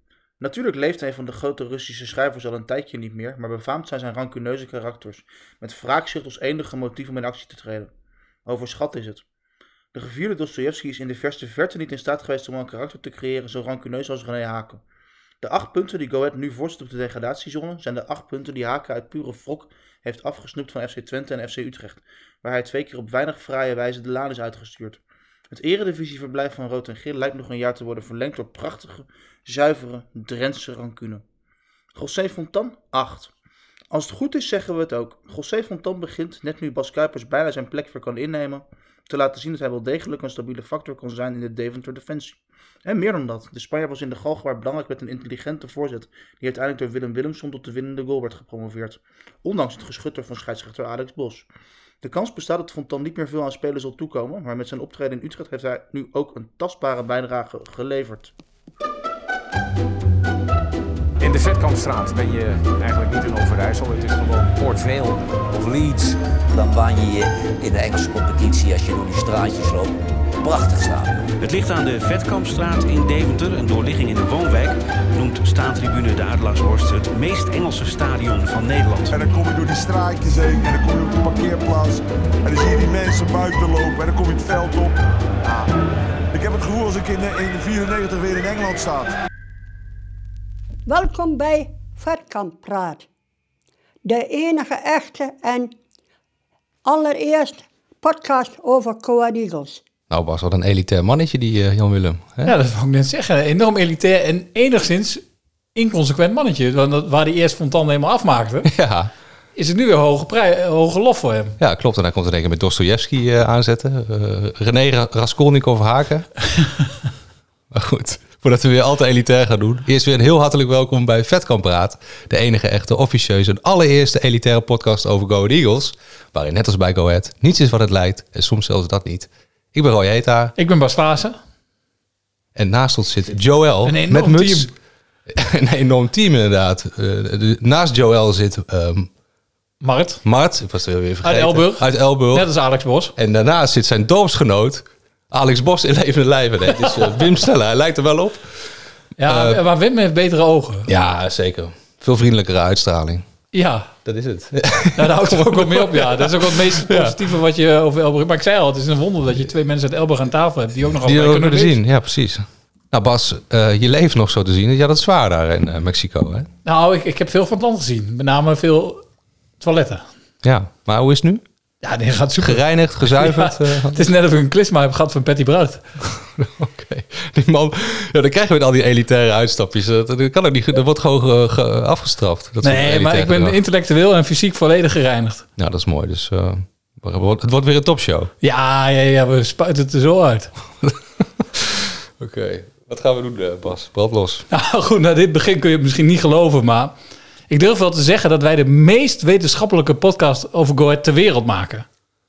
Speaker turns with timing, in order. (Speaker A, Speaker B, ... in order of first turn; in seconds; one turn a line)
Speaker A: 0.4-7.9
Speaker A: 8.5-9.2
Speaker A: 9.9-14.8
Speaker A: 15.4-31.2
Speaker A: 31.9-33.3
Speaker A: 33.9-51.5
Speaker A: 52.0-58.3
Speaker B: 61.2-66.2
Speaker C: 66.5-71.3
Speaker D: 71.4-79.2
Speaker E: 79.1-85.7
Speaker E: 86.3-89.2
Speaker F: 90.9-93.0
Speaker F: 94.0-95.7
Speaker F: 96.8-99.8
Speaker G: 100.1-102.5
Speaker H: 102.4-105.2
Speaker H: 105.8-108.7
Speaker G: 108.7-109.1
Speaker H: 109.5-111.6
Speaker G: 111.6-116.3
Speaker G: 117.7-130.5
Speaker H: 130.6-131.3
Speaker G: 132.6-134.7
Speaker H: 133.8-134.7
Speaker G: 135.3-139.1
Speaker H: 139.8-140.2
Speaker G: 140.2-142.4
Speaker H: 141.2-143.1
Speaker G: 143.2-148.4
Speaker H: 146.7-147.2
Speaker H: 149.2-150.9
Speaker G: 149.2-149.6
Speaker G: 150.9-153.2
Speaker H: 153.5-153.9
Speaker G: 154.0-157.2
Speaker H: 155.0-161.8
Speaker G: 161.0-166.5
Speaker H: 166.7-169.0
Speaker H: 169.6-170.0
Speaker G: 170.4-171.4
Speaker H: 171.8-175.9
Speaker G: 172.4-174.1
Speaker G: 176.3-183.5
Speaker H: 182.6-185.4
Speaker G: 185.6-188.3
Speaker H: 188.4-190.5
Speaker G: 191.5-194.4
Speaker H: 194.5-196.9
Speaker H: 197.5-201.8